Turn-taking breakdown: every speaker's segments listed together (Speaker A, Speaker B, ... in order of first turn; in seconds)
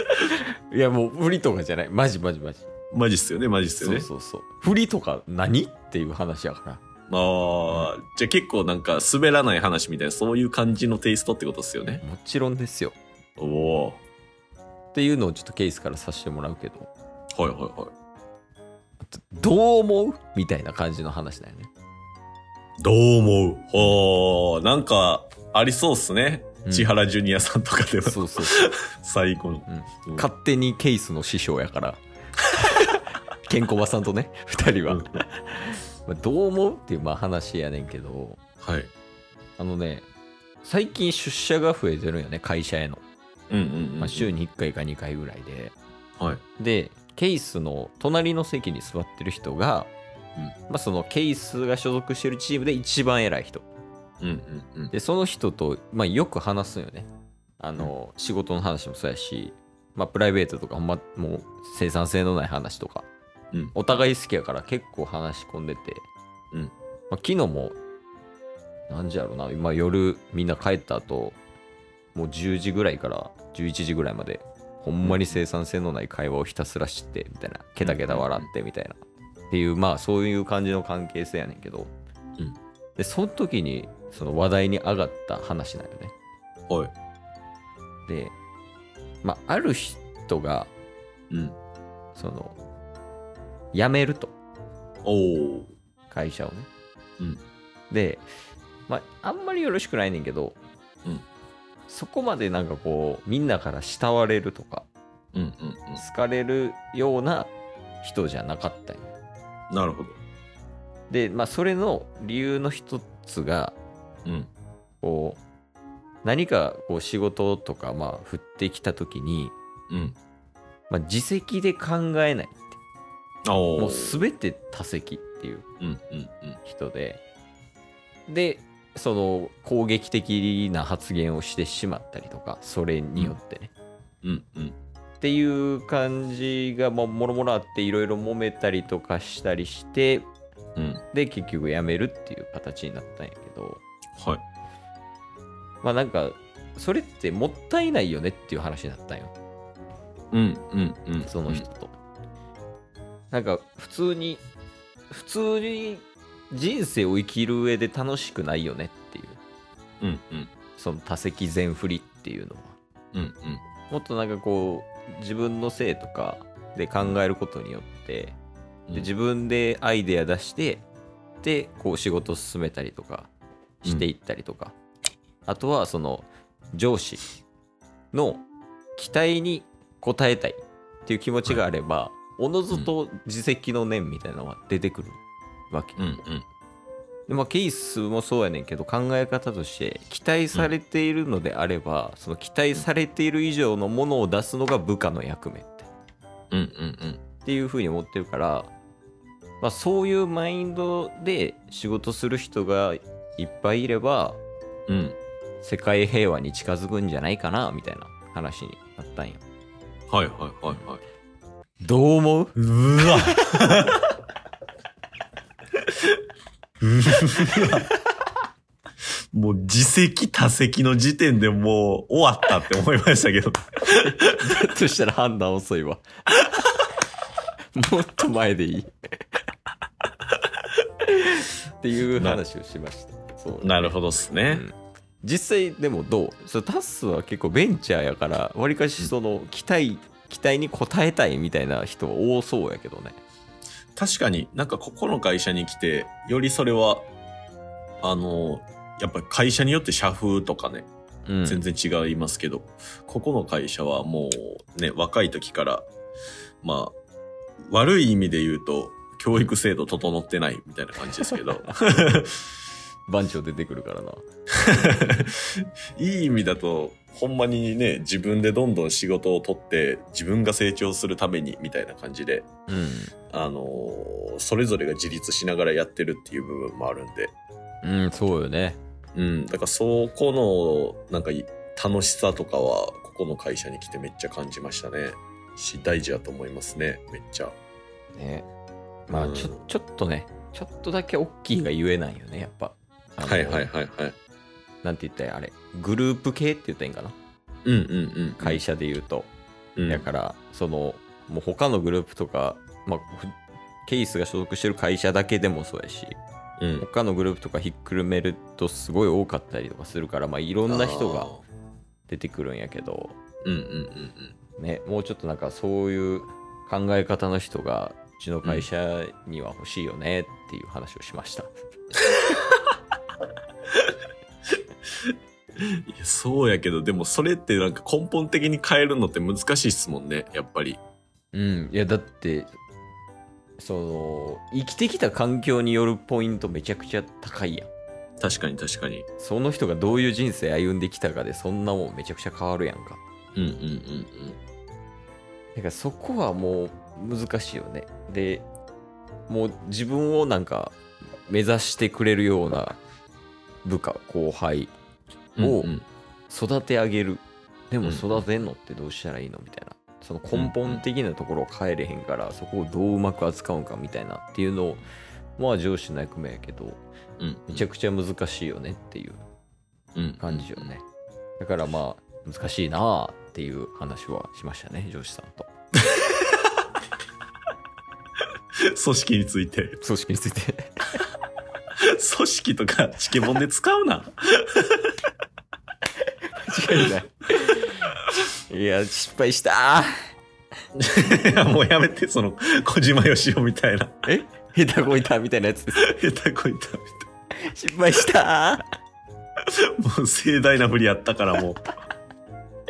Speaker A: 0.2-2.7, 3.8-6.8, 12.0-12.9, 14.9-16.9, 19.0-21.7, 26.7-26.9, 28.1-28.6, 29.7-32.0, 32.7-38.4, 39.6-40.1, 40.6-43.0, 44.0-45.7, 46.6-49.9, 50.7-53.7, 54.9-57.1, 57.6-63.1, 63.8-66.1, 67.1-67.8, 68.9-71.4, 72.1-79.0, 79.5-81.9, 83.0-86.1, 88.1-88.3, 89.2-90.7, 92.2-92.6, 93.7-94.3, 96.1-96.7, 97.9-98.3, 98.9-100.6, 101.9-104.9, 106.0-107.5, 108.0-109.1, 111.1-113.8, 115.0-115.4, 116.2-119.5, 120.9-122.8, 123.8-125.7, 126.6-127.2, 128.3-133.7, 135.2-140.3, 141.1-143.8, 145.8-149.3, 151.3-151.9, 153.3-154.4, 155.1-159.4, 160.8-162.8, 163.9-168.4, 168.9-170.8, 171.4-173.3, 173.8-174.8, 175.5-177.2, 178.1-178.4, 179.0-186.2, 187.3-195.9, 197.4-198.7, 199.6-204.4, 205.6-209.4, 211.8-213.8, 224.0-226.1, 227.7-228.9, 231.0-243.2, 251.3-251.6, 263.1-264.2, 272.7-273.1, 277.8-278.8, 288.1-288.5, 289.1-293.7, 294.8-297.1, 298.4-299.3, 299.9-306.2, 306.8-311.3, 312.1-313.2, 314.6-321.5, 331.3-332.5, 333.6-337.7, 339.2-343.0, 345.6-348.5, 349.3-352.8, 353.6-354.7, 355.4-355.7, 356.3-364.8, 365.4-366.8, 367.5-369.2, 370.2-370.8, 371.4-375.5, 379.8-380.9, 386.3-389.9, 394.1-395.8, 397.4-398.7
Speaker B: 2.9-4.1, 7.1-12.0, 13.4-14.0, 17.4-17.9, 22.8-30.3, 34.9-35.2, 38.6-38.9, 43.5-44.3, 54.2-54.9, 63.5-63.8, 75.0-75.4, 77.8-78.5, 91.3-91.6, 95.0-95.7, 105.3-106.0, 109.7-110.2, 114.2-114.5, 119.9-120.2, 123.5-124.2, 125.8-126.6, 134.2-134.8, 140.8-141.0, 150.3-151.7, 160.0-160.5, 163.1-163.6, 186.0-186.4, 196.5-197.2, 204.9-205.2, 210.1-211.0, 212.6-214.0, 216.8-217.9, 219.3-224.4, 232.2-232.4, 233.6-234.6, 244.0-247.1, 248.0-250.9, 251.4-255.9, 256.6-256.9, 257.7-262.4, 264.6-272.5, 273.3-277.3, 279.1-287.6, 289.1-289.6, 293.2-294.2, 297.6-298.6, 299.8-300.1, 306.6-306.9, 310.7-311.4, 313.4-314.4, 325.6-330.8, 338.2-339.1, 343.4-344.4, 355.4-355.9, 357.8-358.2, 360.3-360.8, 367.2-367.7, 369.9-370.7, 378.6-379.8, 381.8-384.9, 390.8-394.1, 395.7-397.1, 399.6-401.6